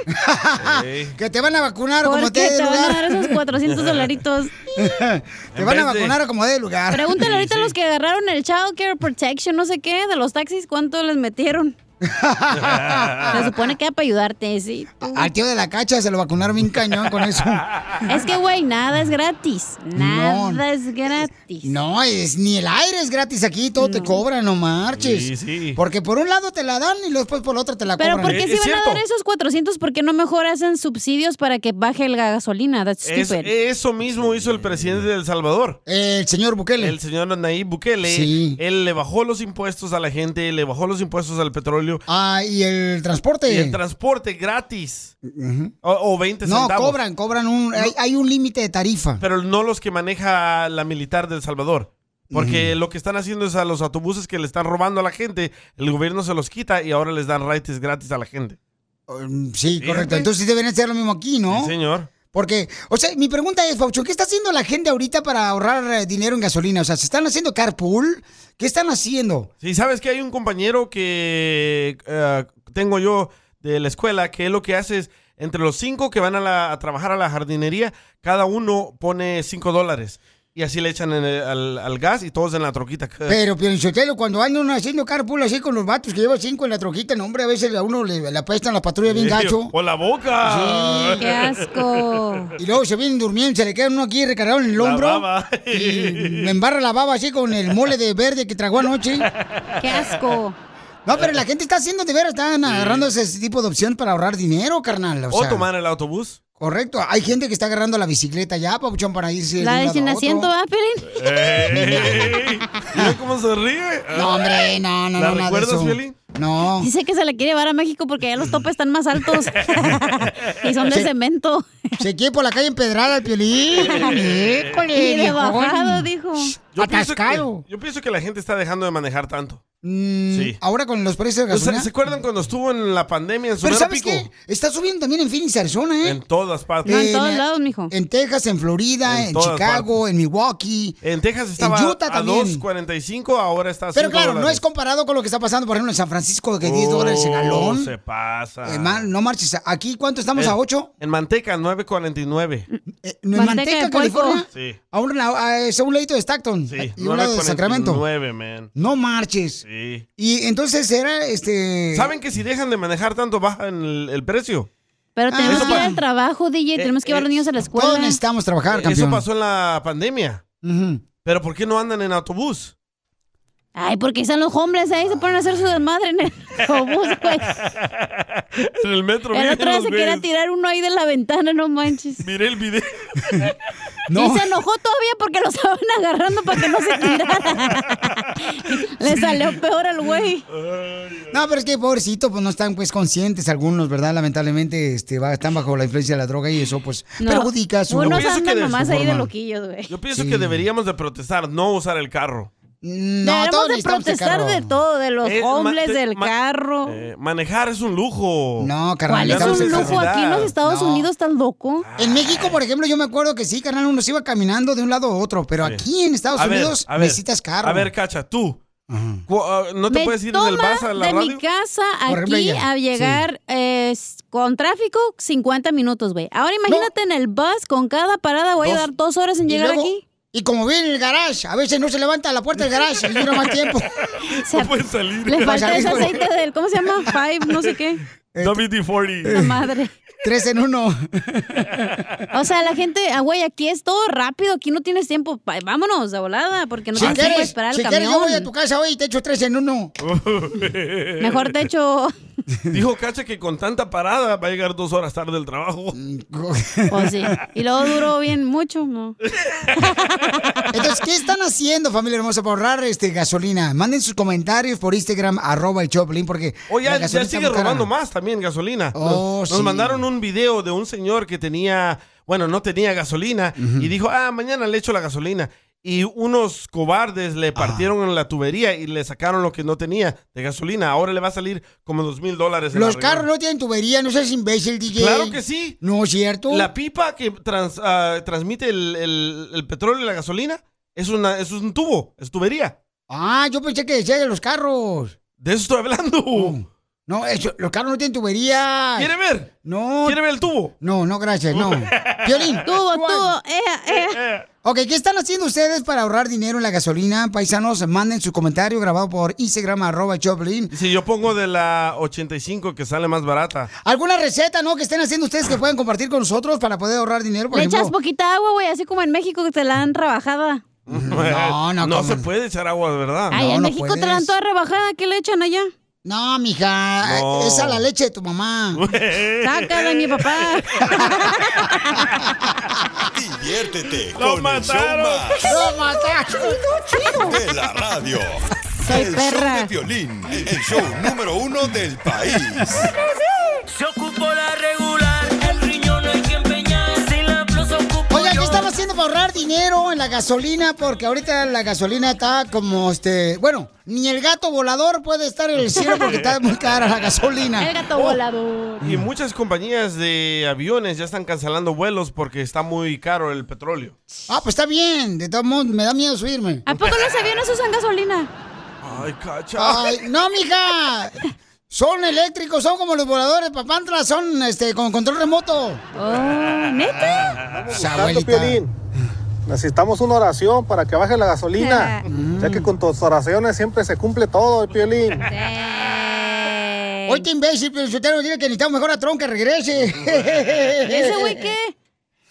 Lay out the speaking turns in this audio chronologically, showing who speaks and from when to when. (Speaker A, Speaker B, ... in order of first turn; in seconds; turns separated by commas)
Speaker A: 0.1-3.4, Speaker B: 0.6-1.2, Speaker C: 2.0-4.5, Speaker B: 3.7-4.2, Speaker A: 4.8-7.2, Speaker B: 5.5-6.2, Speaker C: 6.9-11.8, Speaker B: 7.2-7.7, Speaker A: 12.0-13.5, Speaker B: 12.6-13.4, Speaker C: 13.3-15.3, Speaker A: 15.0-17.6, Speaker B: 17.6-18.0, Speaker C: 18.1-21.7, Speaker A: 19.9-20.6, Speaker A: 21.6-28.4, Speaker C: 23.8-24.2, Speaker B: 24.9-25.8, Speaker C: 28.0-33.5, Speaker B: 28.2-29.0, Speaker B: 33.0-35.8, Speaker A: 35.9-37.0, Speaker B: 36.8-42.0, Speaker A: 38.1-38.6, Speaker A: 42.1-43.8, Speaker B: 43.5-45.1, Speaker A: 45.2-45.7, Speaker B: 45.8-47.0, Speaker A: 46.5-49.2, Speaker B: 49.2-58.6, Speaker A: 52.3-52.7, Speaker A: 59.1-61.7, Speaker B: 59.8-60.3, Speaker B: 61.5-62.1, Speaker A: 62.3-69.5, Speaker B: 69.6-83.4, Speaker A: 83.3-89.7, Speaker B: 89.1-92.2, Speaker A: 90.4-91.2, Speaker C: 91.2-92.5, Speaker A: 92.6-99.3, Speaker B: 94.8-96.5, Speaker B: 99.4-100.3, Speaker C: 99.8-100.5, Speaker A: 101.1-105.7, Speaker B: 102.7-103.1, Speaker B: 105.3-106.4, Speaker A: 106.6-110.5, Speaker C: 109.6-111.6, Speaker B: 111.1-114.5, Speaker A: 111.7-112.4, Speaker A: 114.1-116.9, Speaker B: 115.2-116.2, Speaker C: 116.8-121.7, Speaker B: 119.9-120.5, Speaker A: 122.0-127.6, Speaker B: 123.9-124.8, Speaker C: 125.0-126.5, Speaker B: 126.8-129.6, Speaker A: 129.8-131.9, Speaker B: 130.3-130.6, Speaker B: 131.5-134.3, Speaker A: 133.6-136.2, Speaker B: 136.0-136.9, Speaker A: 136.8-141.0, Speaker C: 136.9-137.9, Speaker B: 139.1-139.9, Speaker B: 141.0-144.6, Speaker A: 141.6-142.6, Speaker A: 143.9-147.9, Speaker B: 146.6-149.1, Speaker A: 148.7-150.9, Speaker B: 150.4-152.7, Speaker A: 153.0-158.0, Speaker C: 153.3-154.4, Speaker B: 154.5-154.8, Speaker B: 156.7-158.7, Speaker A: 158.8-159.6, Speaker B: 159.7-160.1, Speaker A: 160.2-162.2, Speaker B: 161.9-164.7, Speaker C: 165.2-168.2, Speaker A: 165.3-166.0, Speaker B: 165.5-165.9, Speaker B: 166.8-167.3, Speaker A: 167.8-169.2, Speaker B: 168.7-170.4, Speaker A: 170.6-171.0, Speaker B: 171.2-172.7, Speaker C: 173.8-177.6, Speaker B: 176.9-180.2, Speaker C: 179.3-182.2, Speaker B: 182.2-183.5, Speaker A: 184.1-184.5, Speaker C: 184.2-190.4, Speaker B: 190.5-191.4, Speaker A: 191.3-199.3, Speaker C: 197.2-199.9, Speaker B: 198.0-199.0, Speaker B: 199.9-202.5, Speaker A: 200.2-200.6, Speaker A: 202.8-204.8, Speaker C: 203.2-206.9, Speaker B: 205.2-206.3, Speaker B: 206.9-208.7, Speaker A: 208.6-210.1, Speaker C: 209.1-211.8, Speaker B: 209.2-210.5, Speaker A: 210.6-211.1, Speaker B: 211.8-212.6, Speaker A: 212.0-217.9, Speaker B: 216.3-218.6, Speaker A: 218.9-219.2, Speaker B: 219.3-221.4, Speaker C: 219.9-230.0, Speaker A: 222.1-223.2, Speaker A: 229.5-233.9, Speaker B: 233.2-233.5, Speaker B: 234.1-236.2, Speaker C: 234.4-234.7, Speaker C: 235.3-238.0, Speaker A: 235.4-236.1, Speaker A: 238.3-238.7, Speaker B: 238.4-239.5, Speaker A: 239.2-239.5, Speaker C: 239.3-239.9, Speaker A: 240.2-241.9, Speaker C: 242.3-248.5, Speaker A: 246.9-249.9, Speaker B: 247.0-247.3, Speaker B: 250.0-251.5, Speaker C: 251.2-252.1, Speaker B: 252.7-256.0, Speaker A: 255.9-257.3, Speaker C: 256.9-259.2, Speaker B: 259.4-259.7, Speaker C: 259.8-260.6, Speaker A: 260.7-267.9, Speaker B: 266.7-283.2, Speaker A: 268.9-270.0, Speaker A: 273.6-273.9, Speaker A: 277.6-277.9, Speaker A: 282.7-286.7, Speaker B: 284.9-285.8, Speaker B: 286.5-292.8, Speaker A: 293.1-295.2, Speaker B: 295.4-296.6, Speaker A: 296.3-299.1, Speaker B: 299.0-299.5, Speaker A: 299.6-300.2, Speaker B: 300.1-300.7, Speaker A: 300.8-303.3, Speaker B: 301.5-302.6, Speaker C: 302.7-304.2, Speaker B: 303.9-304.4, Speaker A: 304.6-310.7, Speaker B: 310.7-313.7, Speaker A: 313.8-317.9, Speaker C: 317.5-320.6, Speaker B: 320.9-323.4, Speaker A: 320.9-322.3, Speaker A: 323.3-324.3, Speaker C: 323.3-325.7, Speaker A: 326.1-328.8, Speaker B: 327.0-327.8, Speaker B: 328.8-331.1, Speaker C: 329.4-332.1, Speaker D: 333.1-335.5, Speaker B: 334.1-335.4, Speaker A: 335.5-337.2, Speaker D: 337.2-342.8, Speaker C: 338.8-339.7, Speaker E: 343.8-348.5, Speaker A: 348.1-357.8, Speaker C: 355.8-356.1, Speaker B: 355.9-357.1, Speaker C: 357.6-358.9, Speaker B: 358.8-363.9, Speaker A: 364.3-366.6, Speaker C: 366.7-368.3, Speaker B: 368.8-369.9, Speaker A: 369.6-375.8, Speaker C: 376.0-377.4, Speaker B: 376.3-377.9, Speaker A: 377.1-378.6, Speaker F: 377.9-378.4, Speaker F: 379.5-381.8, Speaker C: 381.6-382.0, Speaker A: 382.1-382.7, Speaker F: 383.2-384.7, Speaker C: 385.2-387.2, Speaker A: 387.1-391.5, Speaker B: 389.8-390.7, Speaker C: 390.9-391.7